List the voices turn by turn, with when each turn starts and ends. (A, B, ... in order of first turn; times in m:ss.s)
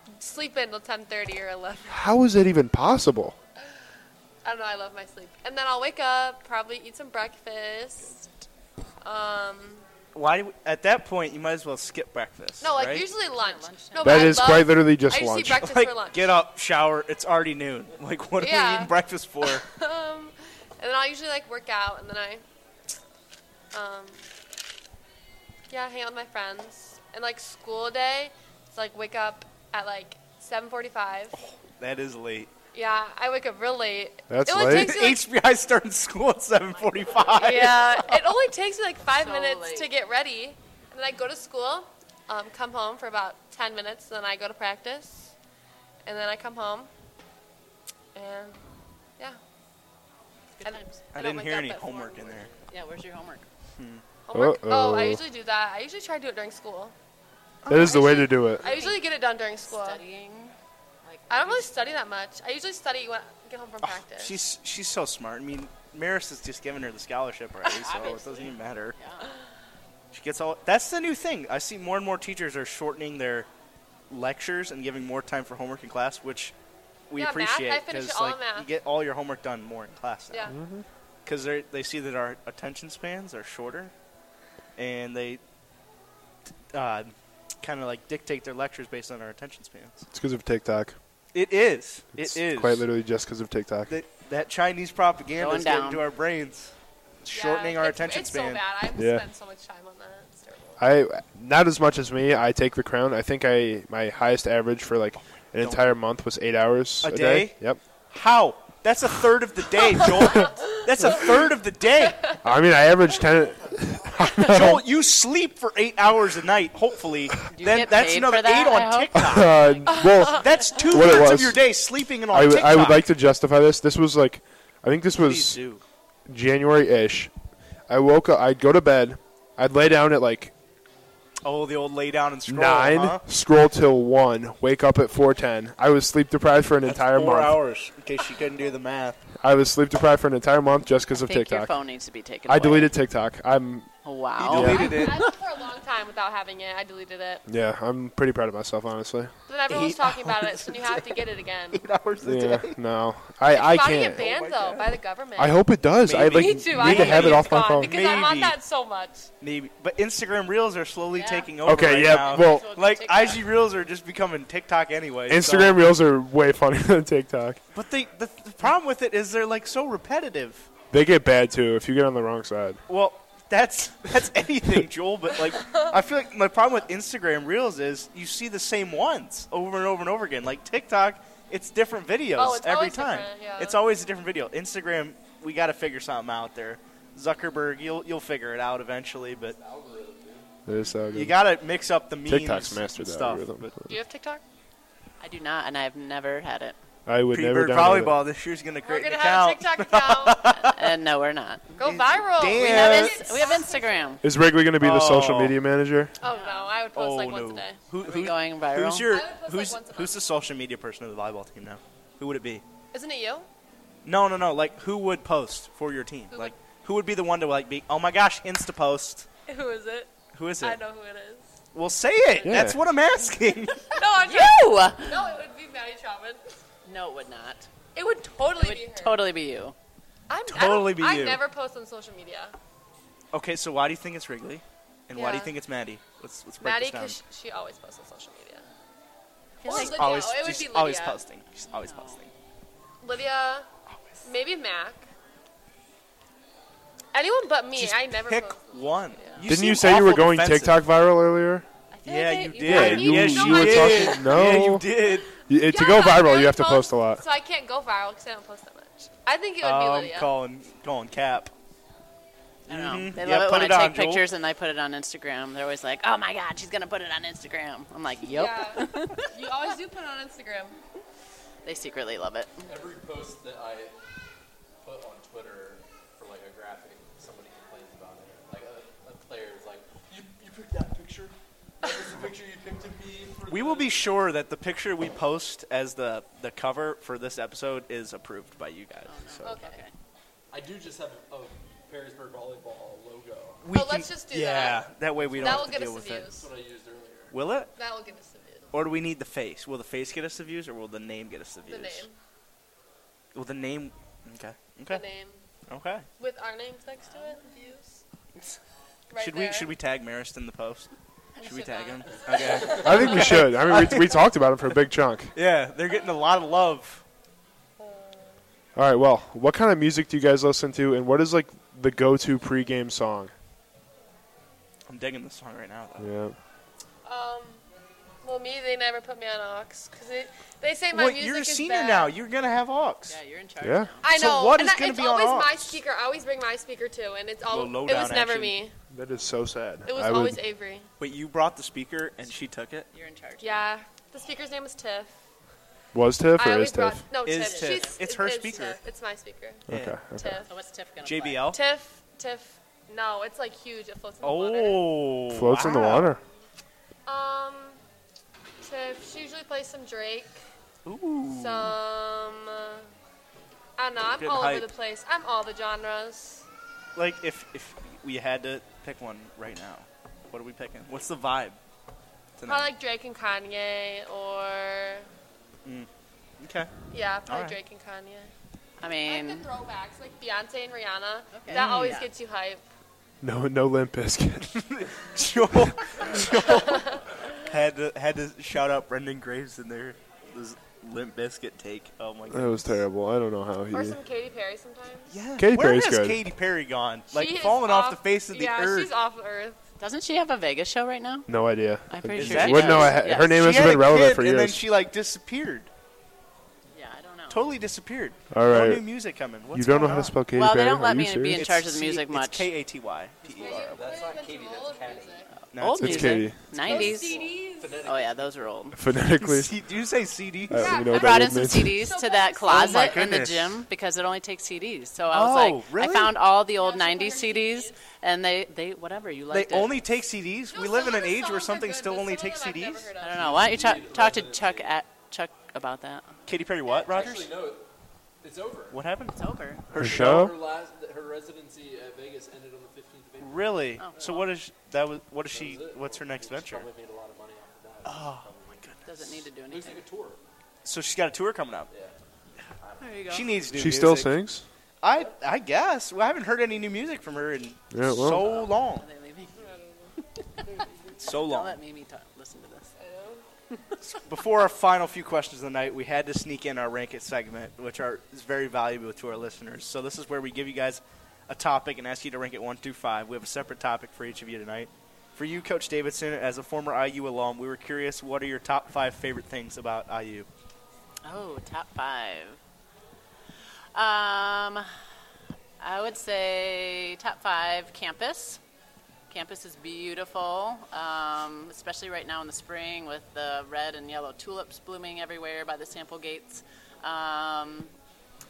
0:00.2-0:02.1 A
0:01.9-0:03.3 B
0:04.4-0:08.3 A
0:09.0-0:09.8 A
0:10.1-0:13.1 C
0:12.6-0:16.3 A
0:13.3-0:14.4 D
0:14.0-0:15.7 B
0:15.6-0:19.6 C
0:18.4-0:18.9 A
0:19.4-0:22.4 A
0:23.7-0:24.3 A
0:25.7-0:31.4 A
0:31.3-0:32.5 C
0:32.7-0:35.2 A
0:34.3-0:34.9 B
0:34.6-0:38.1 C
0:37.2-0:45.3 A
0:39.1-0:39.9 D
0:46.0-0:46.9 A
0:48.1-0:48.6 A
0:50.5-0:51.0 D
0:50.6-0:52.6 A
0:51.1-0:52.5 C
0:52.7-0:53.4 D
0:53.8-0:54.0 C
0:54.3-0:56.9 A
0:54.3-0:55.2 B
0:57.6-0:58.0 C
0:57.7-0:58.7 B
0:57.7-1:00.0 A
0:58.6-0:59.1 D
0:59.7-1:02.0 D
1:01.3-1:04.4 A
1:03.8-1:08.9 C
1:07.7-1:08.0 A
1:07.8-1:09.4 D
1:10.1-1:13.5 C
1:14.1-1:16.5 C
1:17.1-1:20.5 C
1:17.2-1:18.7 A
1:20.5-1:20.8 B
1:21.2-1:23.9 C
1:24.8-1:25.4 C
1:26.7-1:30.0 C
1:30.1-1:31.0 B
1:31.3-1:32.8 C
1:32.2-1:33.9 B
1:33.9-1:36.7 C
1:35.4-1:36.0 D
1:37.2-1:38.6 C
1:37.3-1:40.8 A
1:39.0-1:39.2 B
1:40.8-1:47.8 B
1:45.6-1:45.9 C
1:47.0-1:47.6 C
1:48.1-1:52.3 C
1:50.3-1:50.6 A
1:52.4-1:54.8 B
1:53.6-1:54.0 E
1:54.4-1:59.6 C
1:57.5-2:00.0 D
1:59.1-2:01.6 B
1:59.9-2:00.9 A
2:00.2-2:03.1 C
2:02.3-2:05.6 B
2:05.2-2:05.8 C
2:06.3-2:07.3 B
2:07.9-2:10.5 B
2:11.4-2:13.2 C
2:12.5-2:17.6 B
2:16.8-2:19.2 C
2:19.4-2:21.7 B
2:21.2-2:22.9 D
2:22.5-2:23.9 B
2:24.0-2:25.3 D
2:24.4-2:25.2 C
2:24.5-2:24.9 B
2:24.6-2:27.4 A
2:27.5-2:29.3 B
2:29.5-2:31.8 A
2:29.7-2:32.8 C
2:32.2-2:34.2 B
2:33.5-2:35.6 A
2:33.7-2:35.0 C
2:35.4-2:38.2 B
2:36.0-2:38.6 C
2:36.2-2:39.3 A
2:39.4-2:45.8 C
2:41.1-2:43.4 D
2:41.6-2:42.7 B
2:45.3-2:47.6 B
2:47.7-2:50.7 C
2:50.9-2:52.8 B
2:52.9-3:09.6 C
3:02.4-3:03.8 A
3:09.5-3:10.5 E
3:10.6-3:11.4 B
3:11.1-3:13.8 C
3:12.3-3:13.9 B
3:13.9-3:14.4 A
3:15.2-3:16.8 D
3:17.1-3:18.2 B
3:17.3-3:20.9 C
3:18.8-3:20.4 A
3:20.5-3:21.8 D
3:21.8-3:24.2 A
3:21.8-3:23.3 C
3:22.5-3:24.2 D
3:24.2-3:26.1 B
3:24.8-3:25.6 C
3:26.2-3:27.8 A
3:26.2-3:26.8 D
3:26.9-3:32.6 C
3:28.0-3:29.1 D
3:29.1-3:30.2 A
3:32.9-3:33.5 A
3:34.0-3:39.3 C
3:39.5-3:41.4 A
3:40.3-3:40.8 C
3:41.7-3:43.9 C
3:42.4-3:42.8 B
3:43.9-3:46.6 A
3:44.2-3:45.2 D
3:46.8-3:47.7 D
3:47.9-3:49.2 A
3:48.6-3:49.7 D
3:50.3-3:52.6 A
3:50.5-3:51.4 C
3:53.3-3:57.2 C
3:55.1-3:55.5 A
3:56.6-3:58.6 A
3:59.6-4:00.0 D
3:59.6-4:02.3 C
3:59.6-4:01.2 A
4:01.7-4:02.2 D
4:03.0-4:03.7 A
4:03.9-4:04.2 C
4:04.2-4:05.1 A
4:07.1-4:09.4 A
4:07.7-4:10.8 C
4:09.4-4:11.6 B
4:11.9-4:13.1 D
4:12.0-4:15.3 C
4:12.6-4:14.4 A
4:12.6-4:14.9 B
4:15.5-4:17.2 B
4:15.6-4:20.3 A
4:19.6-4:21.5 C
4:22.7-4:29.3 D
4:22.7-4:24.2 C
4:28.3-4:30.8 A
4:31.6-4:32.6 D
4:32.7-4:33.9 E
4:34.8-4:44.0 E
4:43.5-4:49.6 C
4:49.1-4:49.9 D
4:49.4-4:49.8 A
4:50.5-4:53.6 E
4:53.6-4:56.3 C
4:53.7-4:54.8 A
4:55.2-4:55.8 E
4:55.4-4:56.4 A
4:56.3-4:57.4 E
4:57.3-4:57.7 C
4:57.8-4:58.7 A
4:58.7-5:02.0 C
5:01.7-5:02.2 A
5:03.3-5:05.0 C
5:04.9-5:05.4 A
5:05.7-5:06.1 C
5:06.2-5:08.0 A
5:09.1-5:09.7 A
5:09.2-5:14.2 C
5:11.4-5:13.2 A
5:12.7-5:15.3 B
5:15.3-5:17.0 C
5:17.8-5:18.4 A
5:18.8-5:23.3 B
5:24.9-5:26.1 C
5:26.0-5:26.3 B
5:27.0-5:27.6 A
5:28.2-5:32.1 A
5:30.9-5:33.2 C
5:33.1-5:34.0 D
5:33.6-5:33.9 B
5:34.0-5:38.7 A
5:34.1-5:35.8 C
5:37.5-5:38.6 C
5:38.9-5:40.4 B
5:39.8-5:40.9 A
5:41.0-5:42.9 C
5:42.9-5:43.6 D
5:43.4-5:45.1 A
5:45.9-5:47.0 B
5:46.4-5:50.5 A
5:47.2-5:48.8 C
5:47.3-5:48.0 D
5:49.7-5:50.4 B
5:49.7-5:50.0 C
5:50.5-5:51.4 D
5:51.0-5:51.6 C
5:51.5-5:54.8 A
5:54.2-5:56.1 C
5:55.3-5:56.2 B
5:57.0-5:57.8 A
5:58.6-6:00.4 A
6:00.8-6:01.8 C
6:01.3-6:02.9 A
6:03.8-6:06.4 A
6:04.2-6:04.7 C
6:07.0-6:11.6 C
6:12.4-6:12.7 C
6:12.5-6:15.1 A
6:16.4-6:16.7 C
6:16.9-6:18.3 A
6:17.2-6:17.6 C
6:18.8-6:19.5 D
6:19.0-6:22.6 A
6:21.3-6:22.1 D
6:21.5-6:22.0 C
6:23.2-6:24.7 B
6:24.7-6:32.7 C
6:26.3-6:27.0 A
6:32.3-6:34.0 B
6:33.7-6:35.1 A
6:35.1-6:38.9 C
6:35.4-6:36.2 B
6:37.1-6:39.6 A
6:39.8-6:41.3 D
6:41.3-6:44.6 B
6:41.9-6:43.4 D
6:42.2-6:45.7 C
6:46.7-6:47.4 D
6:47.3-6:50.1 C
6:48.3-6:48.9 B
6:49.5-6:51.5 B
6:50.3-6:52.5 D
6:51.3-6:54.1 C
6:53.4-6:55.3 A
6:53.4-6:55.3 E
6:55.5-6:56.3 C
6:55.5-6:57.2 D
6:55.8-6:56.4 B
6:56.6-6:58.5 E
6:56.6-6:57.8 A
6:57.8-6:58.8 D
6:58.7-6:59.5 B
6:59.2-7:00.8 C
7:00.5-7:01.8 B
7:00.5-7:03.1 A
7:00.9-7:09.8 D
7:02.5-7:03.5 C
7:05.1-7:06.1 C
7:06.6-7:07.8 A
7:09.3-7:12.9 C
7:10.5-7:13.4 A
7:13.0-7:16.1 D
7:13.2-7:14.7 E
7:16.3-7:17.3 C
7:16.7-7:17.1 A
7:16.8-7:17.6 E
7:18.2-7:18.8 E
7:18.7-7:20.4 C
7:19.2-7:19.6 D
7:19.8-7:20.3 B
7:19.8-7:24.3 E
7:23.2-7:26.7 C
7:23.8-7:24.1 D
7:25.3-7:30.2 E
7:27.8-7:28.8 C
7:28.8-7:29.8 D
7:30.6-7:31.7 C
7:31.7-7:32.0 E
7:32.6-7:33.4 E
7:32.8-7:33.3 D
7:33.1-7:34.2 C
7:33.5-7:34.4 B
7:34.8-7:38.8 C
7:37.7-7:38.2 B
7:38.0-7:39.4 D
7:39.4-7:39.9 A
7:40.9-7:41.6 C
7:41.0-7:42.7 D
7:42.8-7:43.2 A
7:43.8-8:00.3 C
8:01.0-8:02.4 D
8:03.7-8:04.7 D
8:05.6-8:08.4 D
8:09.1-8:17.7 D